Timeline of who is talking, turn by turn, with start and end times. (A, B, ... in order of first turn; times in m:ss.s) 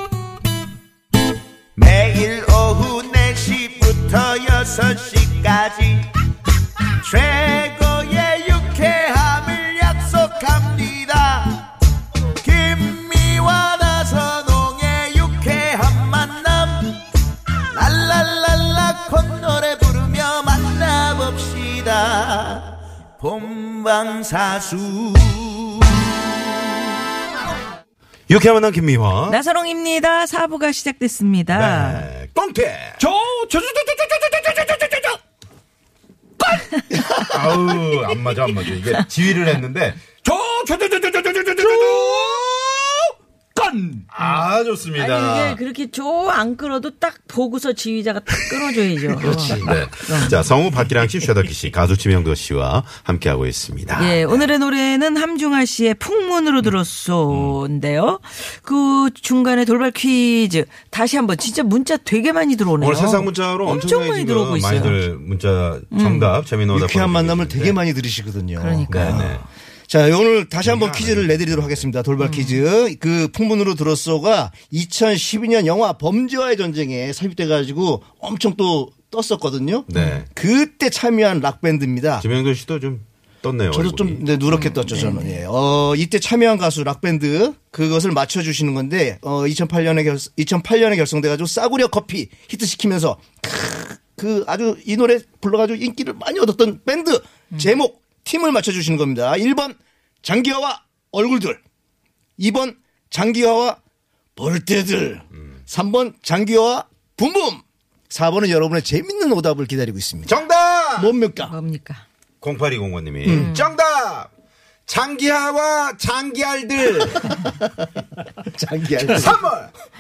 0:01.8-0:06.1 A
0:07.0-0:11.7 A
0:12.4-0:17.0 A
0:17.7-0:26.1 A
0:28.3-0:29.4 B
0:29.3-0:32.1 C
0:31.5-0:33.0 B
0:33.0-0:35.2 D
0:36.4-0:36.8 D
0:37.2-0:40.0 B
0:40.2-0:44.1 D
0:44.1-0:45.6 B
0:45.0-0:50.4 C
0:49.2-0:54.5 B
0:54.0-1:05.0 C
0:57.3-0:57.6 D
1:02.8-1:07.8 B
1:05.9-1:06.3 C
1:06.7-1:22.3 E
1:08.6-1:09.4 C
1:08.9-1:09.4 B
1:10.6-1:11.9 B
1:12.2-1:12.6 C
1:19.9-1:20.3 B
1:19.9-1:20.2 C
1:22.2-1:24.3 B
1:23.7-1:41.6 E
1:24.5-1:25.4 C
1:42.4-1:43.8 E
1:44.4-1:50.4 E
1:50.3-1:51.1 B
1:51.0-1:51.5 E
1:51.4-1:52.0 C
1:52.4-1:54.3 B
1:53.3-1:53.5 E
1:53.3-1:53.6 C
1:54.9-1:57.4 B
1:57.3-1:57.8 E
1:58.4-1:59.4 E
1:59.1-1:59.7 B